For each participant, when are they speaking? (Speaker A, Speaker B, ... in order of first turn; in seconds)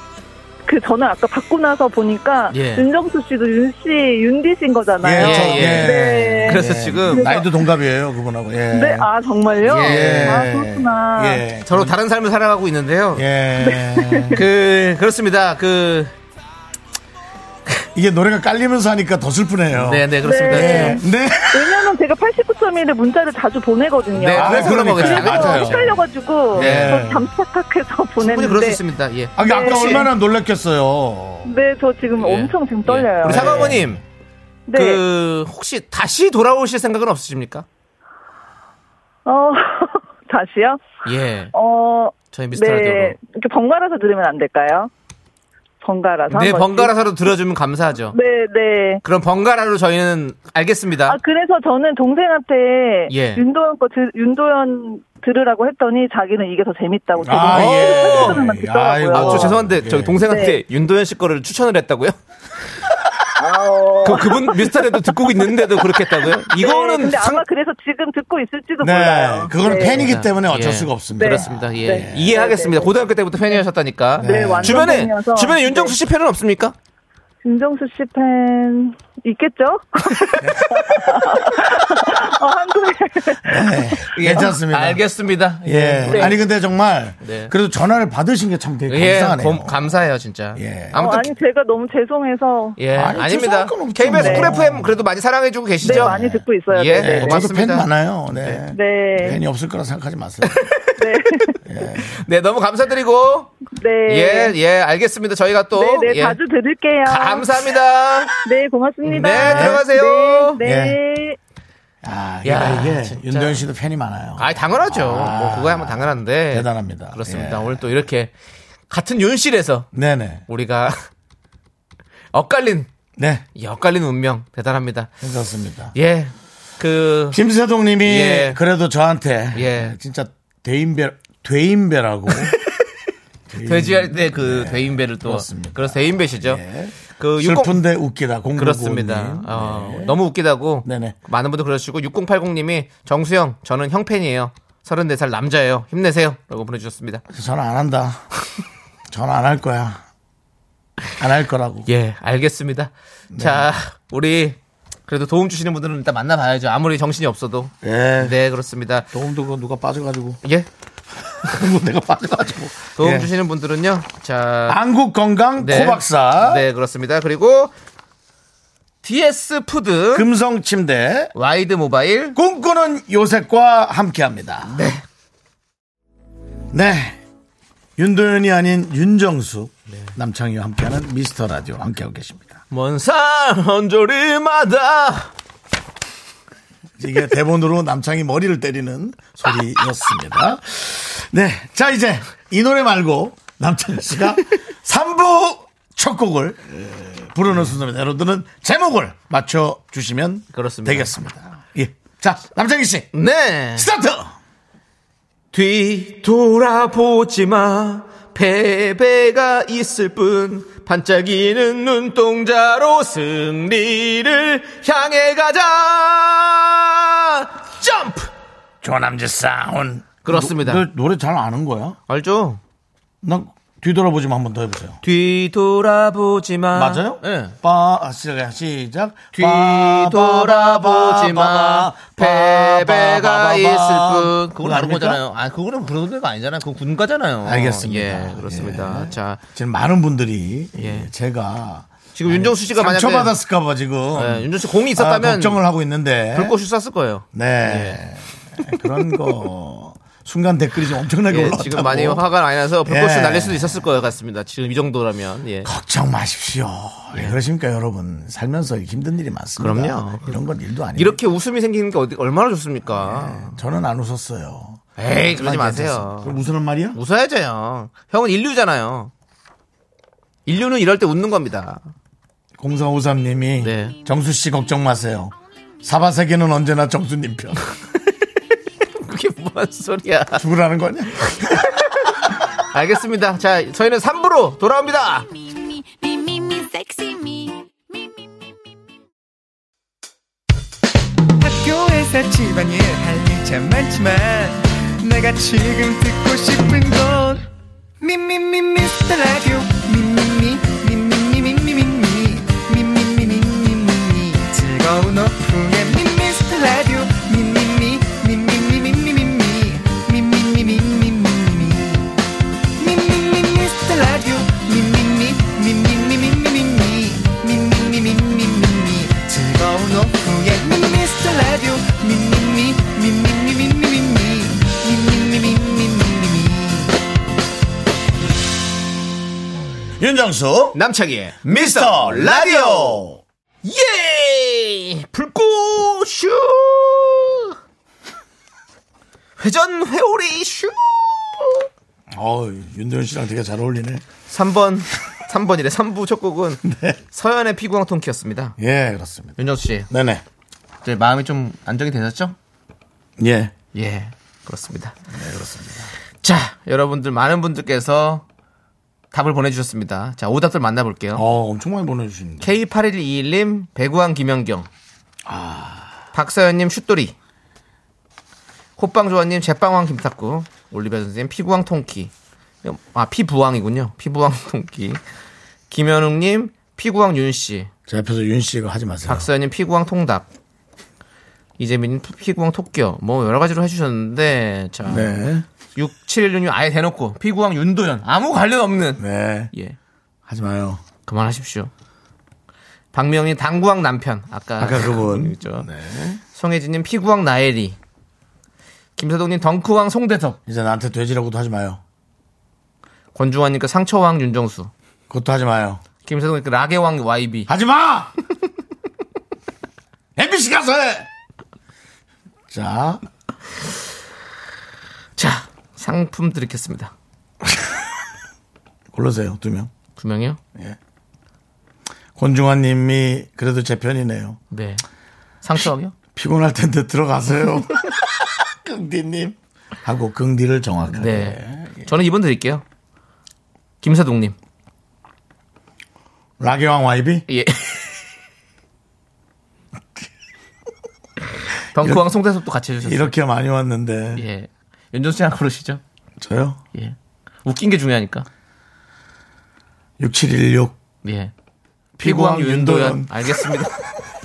Speaker A: 0.7-7.5, 8.7-11.4, 13.6-14.4, 20.2-28.8, 29.4-30.1, 31.4-33.7, 34.7-35.0, 39.2-40.8, 41.5-44.9, 45.8-46.9, 48.1-49.0, 51.1-59.6, 60.2-60.6, 63.4-70.1, 71.2-72.9, 74.2-76.0, 77.4-83.9, 86.1-86.3, 90.9-92.8, 94.1-94.5, 95.8-97.5, 98.7-99.4, 101.0-101.6, 103.7-104.5, 105.7-107.6, 108.4-111.4
Speaker B: 2.5-2.9, 5.2-7.3, 9.6-10.4, 11.7-13.2, 14.3-16.1, 19.7-21.0, 24.1-26.0, 26.5-27.0, 28.2-30.1, 32.2-34.0, 34.7-37.6, 41.0-41.5, 42.3-43.2, 46.3-48.2, 49.0-51.2, 53.1-53.4, 57.5-58.4, 59.1-62.2, 64.0-67.4, 69.9-76.7, 84.1-86.4, 87.2-87.5, 88.9-91.3, 92.8-97.8, 100.5-101.0, 102.0-103.5, 104.1-106.4, 107.0-108.3, 109.0-110.6, 112.4-113.6, 114.4-118.3, 118.9-119.9, 120.5-121.0, 122.3-122.9, 123.5-125.1, 125.9-127.4, 128.0-128.6, 129.5-129.9, 133.6-136.6, 137.2-137.8, 138.6-147.2, 151.8-159.1, 162.9-164.8, 165.6-167.7, 169.0-170.3, 171.3-172.4, 174.7-175.0, 182.7-185.3, 200.5-201.3, 203.1-203.9, 205.5-218.3, 220.2-220.8, 222.1-222.6, 225.0-227.5, 229.3-239.4, 240.8-241.1, 242.1-243.3, 244.1-245.6, 246.3-248.0, 251.3-255.7, 259.6-260.4, 260.9-263.6, 265.0-266.4, 266.9-269.1, 270.4-271.8, 273.6-273.9, 279.0-280.4, 281.3-285.3, 330.7-333.0, 333.6-337.5, 339.4-341.5, 344.3-348.6, 349.4-349.9, 350.8-352.4, 353.7-355.0, 356.2-358.2, 359.1-361.2, 362.4-364.7, 366.1-367.1, 368.8-372.1, 372.6-375.0, 375.7-377.7, 379.1-380.3, 381.6-385.2, 385.7-389.8, 391.1-391.7, 392.9-395.7, 396.3-397.8, 399.0-400.4, 403.1-404.7, 406.0-407.5, 415.2-416.9, 419.9-420.4, 424.5-424.8, 425.4-425.9, 431.0-432.6, 433.8-434.4, 437.3-437.9, 441.7-443.1, 444.1-445.8, 446.7-448.3, 451.0-451.3, 452.0-453.7
Speaker C: 5.0-9.1, 9.8-11.9, 13.1-14.4, 17.9-21.9, 24.4-26.0, 26.5-27.3, 29.4-31.5, 33.2-34.0, 57.2-60.2, 68.8-72.3, 74.2-74.9, 80.4-81.3, 83.4-85.0, 85.6-89.9, 90.5-91.1, 92.9-95.0, 95.8-100.7, 101.7-102.2, 109.4-109.8, 110.6-111.0, 112.0-117.8, 119.9-120.4, 123.2-123.4, 125.2-125.9, 127.3-132.6, 133.5-140.2, 140.8-141.2, 147.3-148.2, 149.1-150.0, 151.2-151.9, 153.3-153.7, 157.8-158.3, 159.1-160.4, 161.4-163.3, 164.7-166.6, 170.1-171.3, 172.3-174.8, 176.7-177.2, 178.0-182.6, 187.0-203.1, 203.7-204.3, 218.8-222.0, 223.2-225.0, 226.7-235.2, 237.4-246.5, 247.3-252.2, 252.8-253.9, 255.6-261.2, 262.9-267.0, 272.6-277.6, 280.4-281.6, 330.0-330.8, 331.4-333.2, 342.1-344.0, 346.6-347.0, 348.6-349.4, 349.9-350.2, 353.2-353.5, 355.1-355.9, 361.1-362.5, 365.2-365.9, 377.9-379.3, 384.8-385.4, 389.0-389.5, 390.3-390.8, 394.6-396.2, 400.4-401.8, 405.1-405.8, 407.5-408.1, 410.1-411.1, 412.5-413.0, 418.9-419.7, 422.1-424.4, 426.1-431.9, 436.4-437.2, 442.8-444.2, 446.2-446.6, 450.0-450.8, 452.0-453.6
Speaker D: 285.4-287.8
Speaker E: 291.4-297.5, 298.0-312.1, 312.8-326.9